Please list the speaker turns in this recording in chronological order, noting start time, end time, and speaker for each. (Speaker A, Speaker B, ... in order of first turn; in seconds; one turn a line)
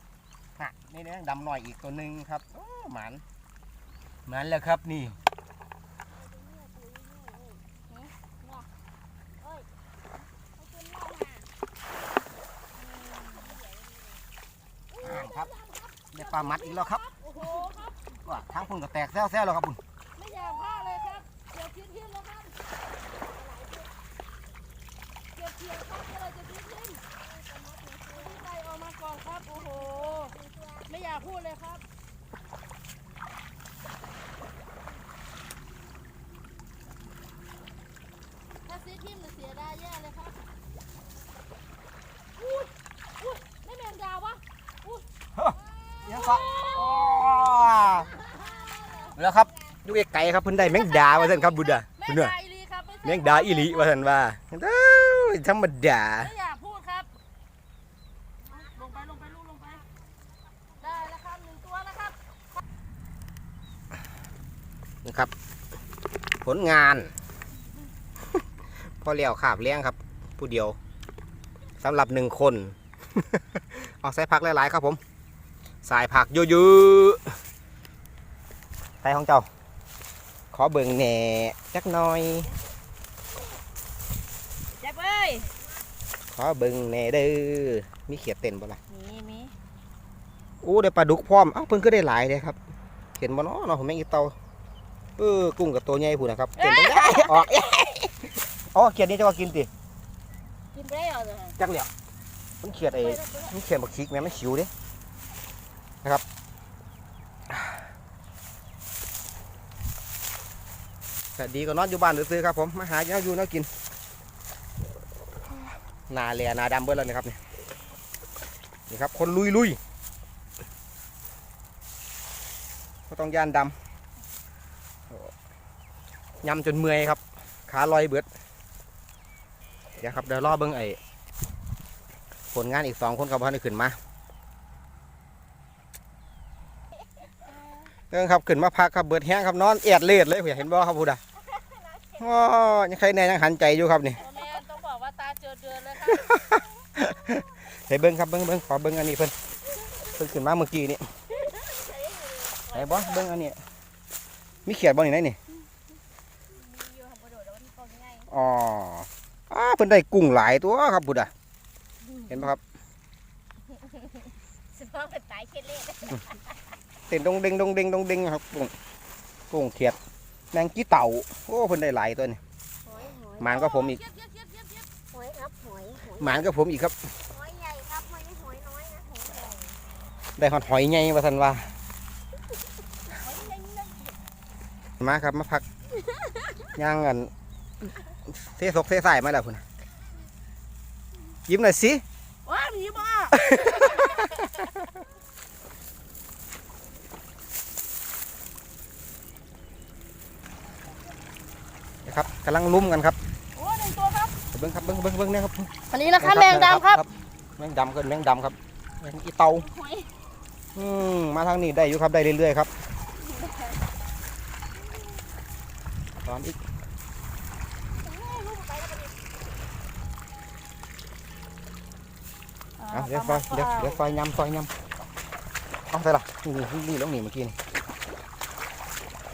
Speaker A: 0.6-3.2
Speaker A: 4.2-5.2
Speaker B: 6.1-7.7
Speaker B: 8.4-8.7
Speaker B: 9.4-9.7
Speaker B: 10.5-11.5
Speaker C: 12.8-13.6
Speaker B: 13.0-14.2
Speaker B: 14.9-16.2
Speaker A: 15.0-15.5
Speaker A: 16.1-17.0
Speaker C: 16.2-18.0
Speaker B: 17.4-17.7
Speaker A: 18.2-19.8
Speaker C: 20.1-22.6
Speaker B: 23.1-23.9
Speaker C: 25.3-27.0
Speaker B: 27.1-28.5
Speaker C: 28.1-30.3
Speaker B: 29.5-30.9
Speaker C: 30.9-31.8
Speaker C: 38.6-40.4
Speaker C: 42.4-45.0
Speaker A: 45.4-48.1
Speaker B: 45.7-47.2
Speaker C: 46.0-47.2
Speaker B: 47.7-49.8
Speaker C: 48.1-49.1
Speaker A: 49.1-52.3
Speaker C: 50.6-53.9
Speaker A: 53.0-56.3
Speaker C: 56.2-57.1
Speaker B: 58.4-61.1
Speaker C: 58.5-59.8
Speaker C: 60.8-62.1
Speaker A: 65.0-65.3
Speaker A: 66.4-67.1
Speaker A: 69.0-70.8
Speaker A: 71.8-75.0
Speaker A: 75.8-77.3
Speaker A: 79.0-79.5
Speaker A: 80.5-82.5
Speaker B: 84.8-85.5
Speaker A: 86.3-88.8
Speaker B: 88.9-89.5
Speaker A: 90.6-92.6
Speaker A: 93.2-94.3
Speaker A: 95.2-99.7
Speaker C: 96.6-97.3
Speaker B: 100.7-101.6
Speaker A: 101.6-101.9
Speaker A: 102.6-104.7
Speaker B: 103.0-103.6
Speaker A: 107.5-107.8
Speaker A: 111.3-113.7
Speaker A: 116.1-117.4
Speaker A: 118.9-119.8
Speaker A: 123.1-123.7
Speaker A: 126.4-128.3
Speaker A: 130.0-131.0
Speaker A: 132.5-134.0
Speaker A: 138.1-141.2
Speaker B: 141.4-142.6
Speaker A: 142.2-144.2
Speaker C: 144.2-146.3
Speaker A: 146.1-149.3
Speaker B: 149.8-150.1
Speaker A: 150.1-151.1
Speaker B: 151.3-153.3
Speaker A: 152.7-153.6
Speaker A: 154.7-155.4
Speaker B: 156.5-158.3
Speaker A: 158.3-161.3
Speaker A: 162.3-162.6
Speaker B: 163.7-166.5
Speaker A: 167.1-168.7
Speaker A: 169.5-170.0
Speaker A: 170.5-172.4
Speaker B: 172.8-173.7
Speaker A: 173.4-174.0
Speaker C: 173.4-174.9
Speaker B: 175.1-176.5
Speaker A: 176.2-177.1
Speaker B: 177.3-179.8
Speaker A: 180.4-181.7
Speaker C: 183.1-184.2
Speaker A: 185.0-185.6
Speaker B: 185.9-186.7
Speaker A: 186.7-187.3
Speaker A: 188.3-189.6
Speaker A: 191.5-192.0
Speaker C: 192.4-194.3
Speaker A: 193.3-194.9
Speaker A: 202.1-203.2
Speaker C: 203.5-204.4
Speaker A: 204.5-209.7
Speaker C: 205.9-207.0
Speaker B: 209.6-210.1
Speaker A: 210.7-212.7
Speaker B: 213.2-213.8
Speaker A: 216.2-216.6
Speaker B: 217.9-219.2
Speaker C: 222.8-224.0
Speaker A: 222.9-224.7
Speaker A: 225.9-227.6